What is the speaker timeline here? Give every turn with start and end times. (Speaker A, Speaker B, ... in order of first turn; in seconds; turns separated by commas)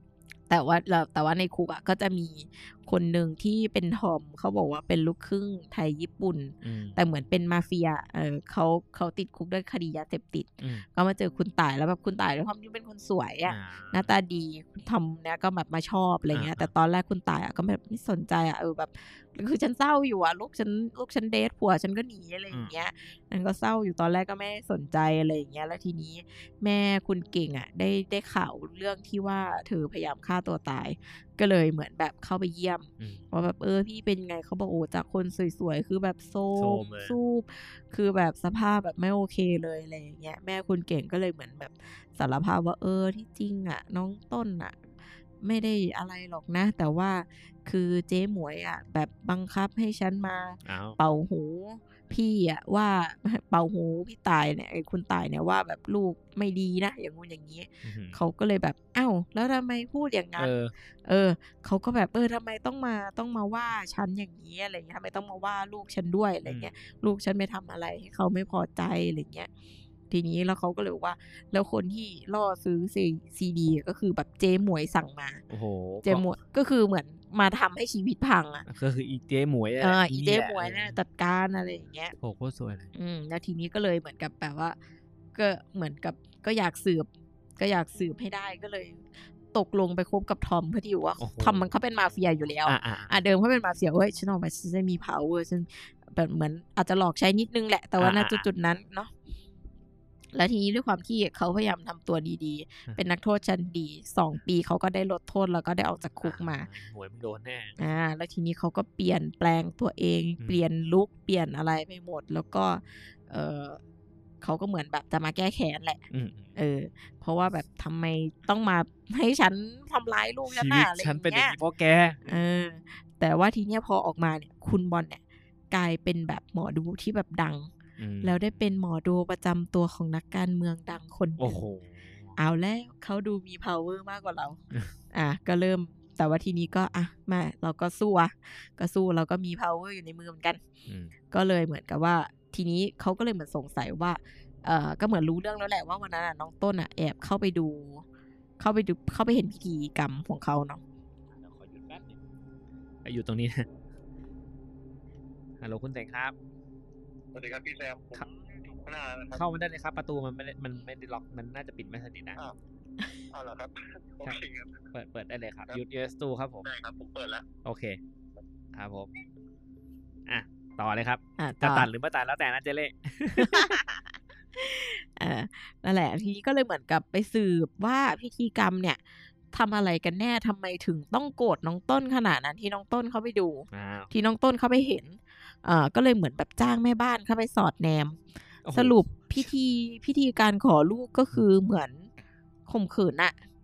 Speaker A: 0.5-44.8, Speaker B: 6.6-7.0, Speaker B: 13.5-14.1, Speaker B: 16.3-16.7, Speaker B: 22.5-22.8, Speaker B: 33.0-33.2, Speaker B: 36.6-37.2, Speaker A: 45.4-60.5, Speaker B: 50.6-51.0, Speaker B: 57.8-58.2, Speaker B: 60.4-60.7, Speaker A: 61.0-69.5, Speaker B: 66.5-66.7, Speaker A: 70.1-75.4, Speaker B: 75.5-76.3, Speaker A: 76.0-78.7, Speaker B: 78.7-81.0, Speaker A: 79.8-82.2, Speaker B: 82.2-82.9, Speaker A: 83.0-84.8, Speaker A: 85.3-99.1, Speaker B: 91.2-91.7, Speaker B: 92.4-93.2, Speaker B: 98.0-98.5, Speaker A: 100.3-106.7, Speaker B: 106.2-107.8, Speaker A: 107.8-113.8, Speaker A: 114.4-116.0, Speaker B: 116.1-116.5, Speaker A: 116.5-121.6, Speaker B: 120.5-122.2, Speaker A: 122.2-127.7, Speaker B: 128.0-128.7, Speaker A: 128.2-131.6, Speaker B: 131.4-132.4, Speaker A: 132.4-134.6, Speaker A: 135.1-140.6, Speaker B: 140.9-141.1, Speaker A: 141.3-148.0, Speaker A: 148.6-150.8, Speaker B: 151.4-152.2, Speaker B: 153.0-153.7, Speaker B: 155.6-156.3, Speaker C: 157.3-159.4, Speaker B: 159.3-162.4, Speaker C: 163.3-164.9, Speaker B: 164.9-166.7, Speaker C: 166.6-167.5, Speaker B: 167.6-168.0, Speaker B: 168.7-169.1, Speaker B: 170.3-173.8, Speaker A: 171.4-171.9, Speaker A: 173.4-179.0, Speaker A: 179.5-188.2, Speaker B: 183.7-184.1, Speaker B: 188.7-189.5, Speaker A: 188.7-192.1, Speaker A: 192.7-193.4